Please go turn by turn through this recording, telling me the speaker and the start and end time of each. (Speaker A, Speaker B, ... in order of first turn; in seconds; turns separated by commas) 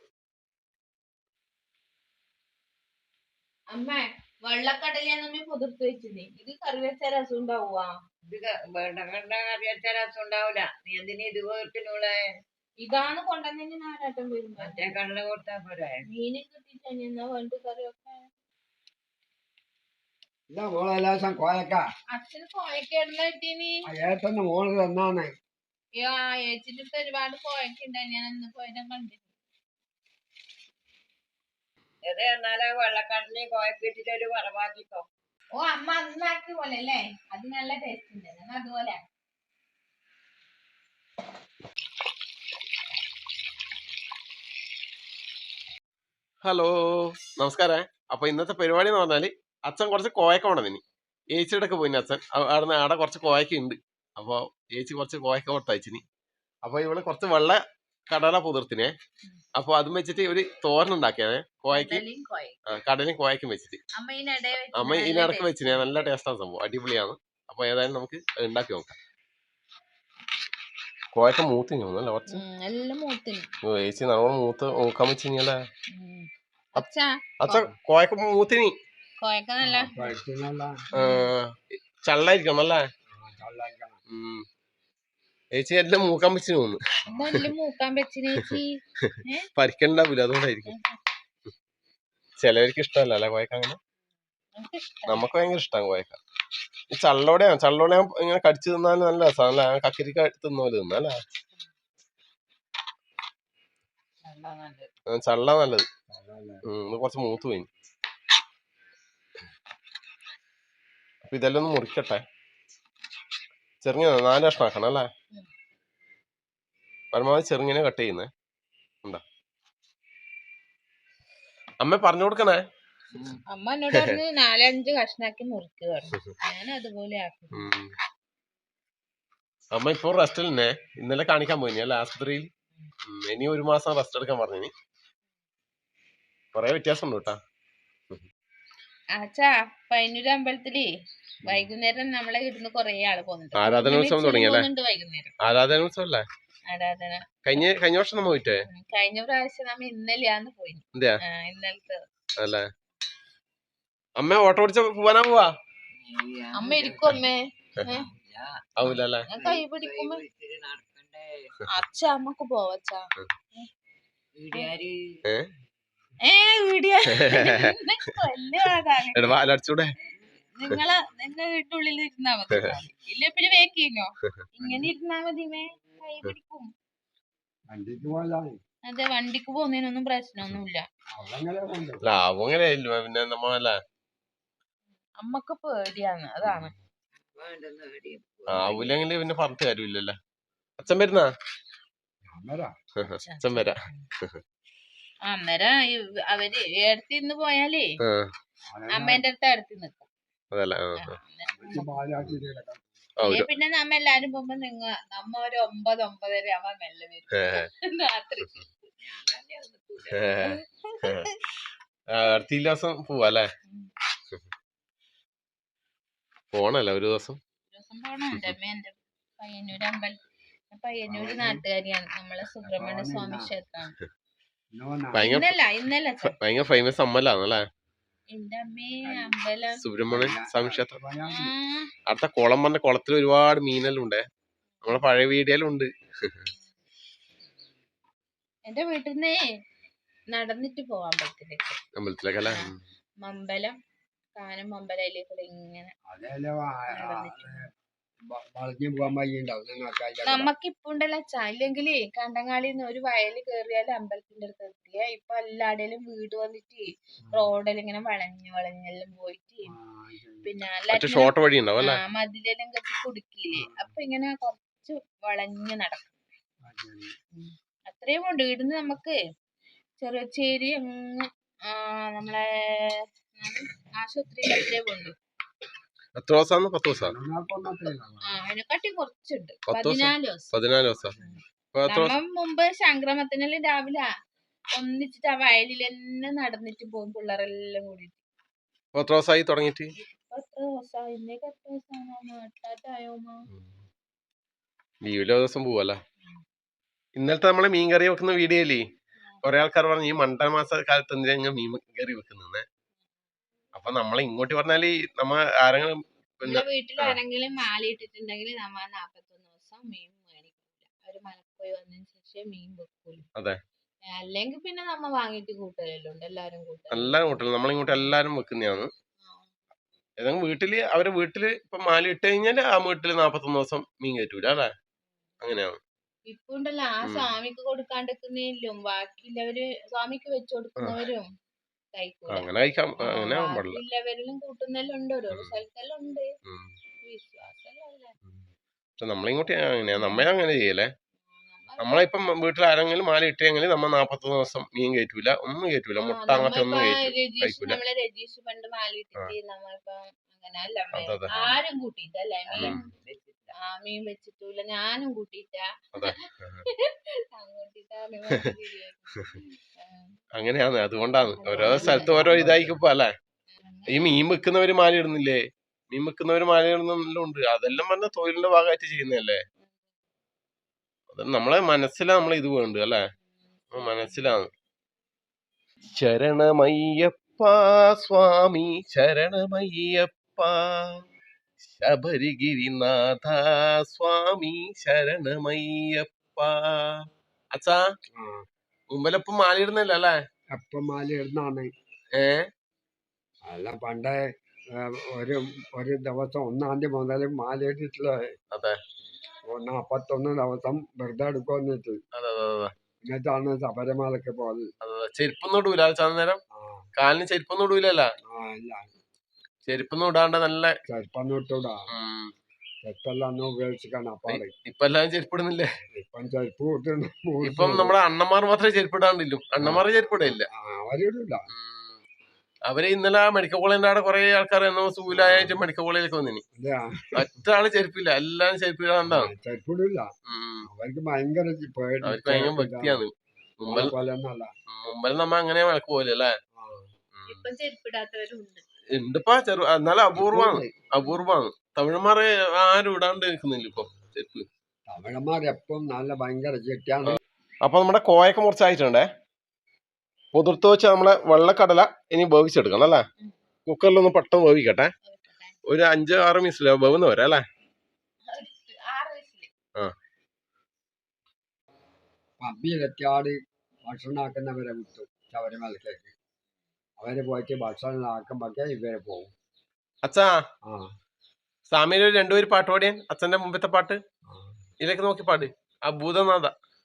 Speaker A: 3.7-7.9, Speaker B: 8.3-12.2, Speaker A: 12.8-14.9, Speaker B: 14.6-16.0, Speaker A: 16.1-18.2, Speaker C: 20.5-21.8, Speaker A: 22.1-23.8, Speaker C: 23.9-25.3, Speaker A: 26.0-29.2, Speaker B: 32.0-35.1, Speaker A: 35.5-39.0, Speaker D: 46.4-50.8, Speaker D: 51.3-56.0, Speaker D: 56.6-58.9, Speaker D: 59.5-62.0, Speaker A: 61.7-62.6, Speaker D: 62.7-63.8, Speaker A: 63.9-65.9, Speaker D: 64.7-68.9, Speaker D: 71.1-72.4, Speaker A: 72.3-73.5, Speaker D: 73.6-75.6, Speaker A: 75.9-77.7, Speaker D: 77.4-78.7, Speaker A: 79.2-80.1, Speaker C: 79.6-80.8, Speaker A: 80.9-81.3, Speaker D: 80.9-82.8, Speaker C: 83.1-84.0, Speaker D: 84.1-84.4, Speaker D: 85.5-87.5, Speaker A: 87.0-89.5, Speaker D: 89.1-90.7, Speaker A: 90.7-91.0, Speaker D: 92.4-93.8, Speaker A: 94.5-95.2, Speaker D: 95.1-96.2, Speaker D: 96.9-101.2, Speaker B: 104.2-104.9, Speaker D: 105.1-105.8, Speaker C: 106.1-106.6, Speaker D: 106.7-107.7, Speaker D: 111.2-112.2, Speaker D: 113.8-115.1, Speaker D: 117.1-118.3, Speaker D: 121.8-122.6, Speaker A: 123.5-127.7, Speaker D: 127.5-127.9, Speaker D: 129.7-132.5, Speaker D: 133.1-134.7, Speaker D: 136.5-137.4, Speaker A: 139.2-140.9, Speaker A: 141.4-145.3, Speaker D: 143.6-144.7, Speaker D: 145.4-146.2, Speaker A: 146.7-147.2, Speaker D: 147.4-148.6, Speaker A: 148.6-152.0, Speaker D: 152.4-152.7, Speaker D: 154.2-155.5, Speaker B: 156.0-157.2, Speaker A: 156.5-158.1, Speaker B: 158.1-158.6, Speaker D: 158.8-159.3, Speaker A: 158.8-160.2, Speaker B: 159.3-161.5, Speaker A: 161.7-163.7, Speaker B: 164.3-165.2, Speaker A: 166.2-169.3, Speaker D: 167.1-167.7, Speaker D: 169.1-169.9, Speaker A: 170.5-176.7, Speaker C: 177.7-178.6, Speaker A: 178.9-180.8, Speaker C: 181.1-182.0, Speaker D: 182.0-183.8, Speaker A: 185.2-186.7, Speaker B: 187.3-189.1, Speaker D: 188.5-190.2, Speaker D: 190.8-191.3, Speaker C: 192.3-192.7, Speaker D: 193.0-194.4, Speaker A: 193.2-194.0, Speaker A: 195.2-197.9, Speaker D: 198.0-198.3, Speaker C: 198.7-199.2, Speaker A: 198.9-200.1, Speaker D: 200.5-201.2, Speaker A: 201.0-202.0, Speaker C: 201.4-202.8, Speaker D: 203.2-203.5, Speaker A: 203.2-208.7, Speaker D: 207.3-207.7, Speaker B: 209.0-210.3, Speaker D: 210.1-211.3, Speaker A: 210.4-211.4, Speaker D: 212.1-213.5, Speaker D: 216.5-217.4, Speaker A: 217.7-220.2, Speaker A: 220.7-224.0, Speaker C: 221.1-221.6, Speaker C: 222.6-223.5, Speaker C: 224.8-225.3, Speaker D: 225.1-225.5, Speaker A: 225.1-226.3, Speaker D: 226.3-227.6, Speaker A: 228.3-229.8, Speaker C: 229.1-229.3, Speaker D: 229.8-231.0, Speaker C: 230.1-231.5, Speaker A: 231.2-231.9, Speaker D: 232.1-234.2, Speaker D: 234.8-236.5, Speaker A: 238.7-239.4, Speaker A: 240.3-241.8, Speaker D: 241.9-242.8, Speaker A: 242.4-242.7, Speaker A: 243.2-243.7, Speaker A: 244.4-245.9, Speaker C: 246.1-247.7, Speaker A: 246.9-247.6, Speaker C: 248.3-250.5, Speaker A: 250.2-259.7, Speaker C: 259.7-260.5, Speaker A: 260.4-266.1, Speaker D: 260.9-262.0, Speaker C: 263.5-263.9, Speaker C: 266.6-267.1, Speaker A: 267.3-269.2, Speaker A: 270.0-275.1, Speaker D: 276.1-277.1, Speaker C: 277.0-278.4, Speaker A: 278.2-280.5, Speaker D: 279.7-281.1, Speaker C: 281.0-281.4, Speaker A: 281.2-284.1, Speaker D: 281.7-282.1, Speaker A: 284.8-288.2, Speaker D: 288.9-289.9, Speaker A: 290.0-293.4, Speaker D: 295.0-296.0, Speaker D: 297.1-298.8, Speaker D: 299.4-302.6, Speaker D: 303.7-307.2, Speaker A: 306.4-313.2, Speaker A: 314.1-317.2, Speaker D: 316.9-318.9, Speaker A: 317.9-318.1, Speaker A: 319.2-319.5, Speaker D: 320.2-324.7, Speaker D: 325.4-325.8, Speaker A: 326.3-331.2, Speaker D: 327.0-327.3, Speaker A: 331.9-332.5, Speaker D: 332.3-333.8, Speaker A: 333.0-336.3, Speaker D: 335.3-335.6, Speaker D: 336.5-336.7, Speaker A: 337.0-338.1, Speaker D: 339.0-340.9, Speaker A: 339.9-340.3, Speaker A: 341.3-342.0, Speaker D: 341.8-347.8, Speaker A: 346.0-352.8, Speaker D: 350.9-351.3, Speaker B: 352.5-353.5, Speaker A: 353.5-360.1, Speaker D: 355.9-356.6, Speaker D: 360.4-363.1, Speaker A: 361.4-362.2, Speaker B: 361.7-362.7, Speaker A: 363.5-364.2, Speaker D: 363.9-369.4, Speaker D: 371.1-373.0, Speaker A: 373.6-374.3, Speaker D: 373.7-374.5, Speaker D: 375.9-381.0, Speaker D: 381.7-387.0, Speaker D: 387.5-387.8, Speaker C: 388.1-388.4, Speaker D: 388.9-390.2, Speaker C: 390.6-391.7, Speaker D: 392.1-392.5, Speaker C: 393.5-394.2, Speaker C: 394.8-398.3, Speaker D: 398.5-398.8, Speaker C: 399.5-402.0, Speaker D: 402.1-402.7, Speaker C: 403.0-404.7, Speaker D: 404.8-406.4, Speaker C: 406.5-406.9, Speaker D: 406.9-408.1, Speaker C: 408.2-408.9, Speaker D: 409.6-410.8, Speaker C: 410.9-411.9, Speaker D: 411.9-412.3, Speaker C: 412.8-414.5, Speaker D: 414.3-415.7, Speaker C: 415.9-417.9, Speaker D: 417.4-420.5, Speaker C: 420.5-421.5, Speaker D: 421.5-422.0, Speaker D: 422.7-426.4, Speaker C: 425.1-425.6, Speaker C: 426.5-427.1, Speaker D: 427.1-429.3, Speaker C: 429.1-430.1, Speaker D: 430.3-430.7, Speaker C: 430.6-433.0, Speaker D: 432.0-433.9, Speaker C: 433.6-434.5, Speaker D: 434.7-436.3, Speaker C: 436.6-436.9, Speaker D: 437.1-437.4, Speaker A: 437.3-438.6, Speaker D: 438.9-444.4, Speaker C: 440.1-440.7, Speaker C: 444.9-447.2, Speaker D: 447.1-449.1, Speaker D: 450.3-453.0, Speaker D: 453.7-454.9, Speaker A: 455.0-455.6, Speaker D: 455.7-457.4, Speaker A: 458.3-459.5, Speaker C: 462.4-466.1, Speaker C: 467.0-469.3, Speaker D: 470.0-470.4, Speaker D: 471.7-474.0, Speaker C: 474.3-474.6, Speaker D: 474.8-476.5